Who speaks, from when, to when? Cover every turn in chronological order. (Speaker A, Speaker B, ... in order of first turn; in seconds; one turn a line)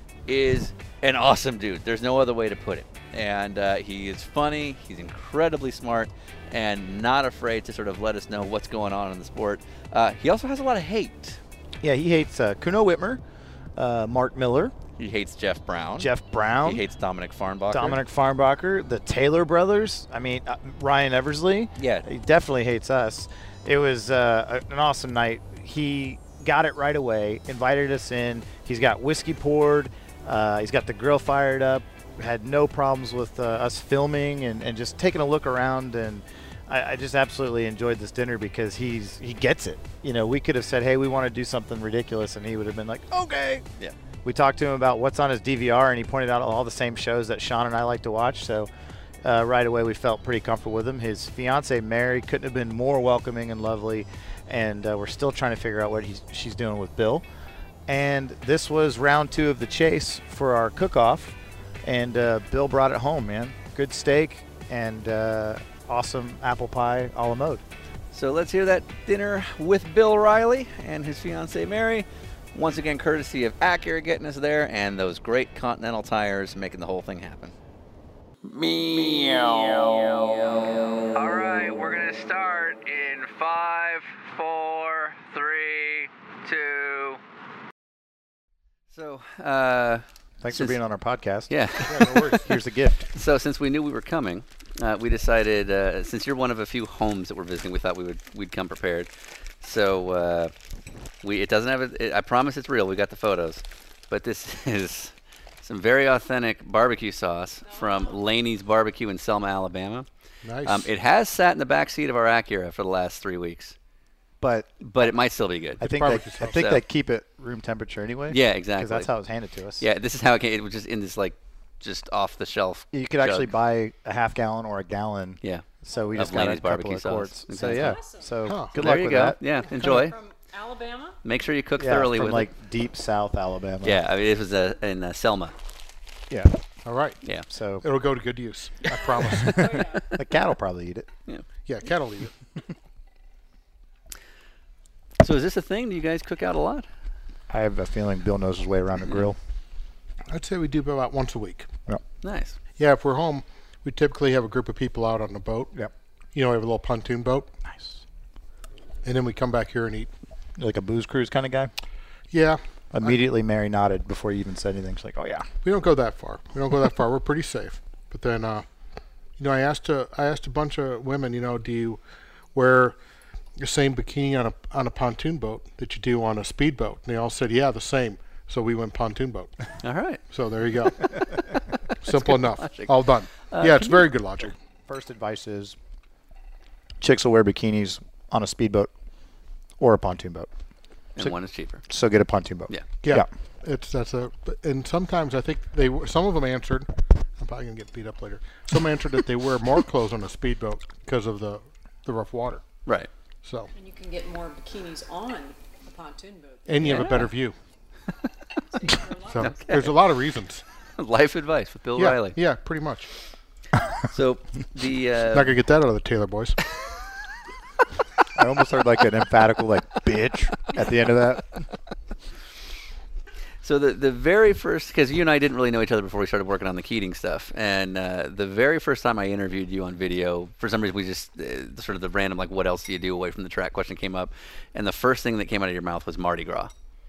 Speaker A: 0.3-11.4
Speaker B: 11.8-13.2
Speaker B: 13.8-14.7
Speaker A: 15.0-16.1
Speaker B: 16.0-16.8
Speaker A: 16.6-18.0
Speaker B: 17.7-43.6
Speaker A: 21.8-22.1
Speaker B: 44.2-48.7
Speaker B: 49.2-57.2
Speaker B: 57.9-67.6
Speaker A: 68.1-77.5
Speaker C: 78.5-80.8
Speaker A: 81.2-87.1
Speaker A: 88.9-90.8
Speaker B: 90.4-93.1
Speaker A: 91.5-92.1
Speaker D: 91.9-92.5
Speaker A: 93.1-99.1
Speaker A: 99.6-100.5
Speaker A: 101.2-110.1
Speaker E: 107.6-108.2
Speaker D: 110.4-110.9
Speaker A: 110.6-113.8
Speaker B: 114.4-115.1
Speaker A: 114.8-115.9
Speaker B: 115.8-119.9
Speaker D: 115.8-116.5
Speaker A: 116.5-116.8
Speaker A: 118.3-119.1
Speaker A: 119.8-123.5
Speaker B: 122.9-129.4
Speaker A: 125.4-128.0
Speaker E: 127.6-128.4
Speaker D: 128.4-128.7
Speaker A: 128.8-130.1
Speaker E: 129.7-131.2
Speaker D: 129.8-130.0
Speaker A: 131.2-132.5
Speaker B: 131.8-134.0
Speaker A: 133.8-135.5
Speaker B: 136.3-136.5
Speaker D: 136.8-137.2
Speaker B: 137.5-137.8
Speaker D: 137.8-139.8
Speaker E: 139.0-140.2
Speaker B: 140.1-141.1
Speaker D: 141.7-142.3
Speaker A: 145.2-146.9
Speaker B: 147.5-149.4
Speaker D: 150.3-151.7
Speaker A: 152.2-152.6
Speaker D: 152.8-155.7
Speaker D: 156.3-157.5
Speaker B: 157.7-158.0
Speaker D: 159.0-160.1
Speaker B: 160.6-161.7
Speaker D: 162.3-163.2
Speaker B: 162.9-165.4
Speaker D: 165.6-168.6
Speaker D: 169.4-172.0
Speaker D: 172.5-172.9
Speaker D: 173.6-179.5
Speaker A: 179.8-180.2
Speaker D: 180.3-181.1
Speaker D: 182.0-184.5
Speaker A: 182.1-182.9
Speaker A: 183.5-184.1
Speaker B: 184.9-185.8
Speaker B: 187.0-188.9
Speaker B: 189.8-190.5
Speaker A: 191.2-191.8
Speaker B: 191.9-193.3
Speaker D: 193.0-196.9
Speaker D: 197.4-202.6
Speaker D: 203.4-203.7
Speaker E: 203.7-207.2
Speaker D: 206.7-207.6
Speaker A: 206.8-207.3
Speaker E: 208.7-209.7
Speaker D: 209.3-210.6
Speaker A: 209.4-209.9
Speaker A: 211.0-212.4
Speaker D: 211.9-213.1
Speaker A: 214.1-215.6
Speaker D: 215.3-216.6
Speaker B: 218.3-221.7
Speaker A: 223.6-236.7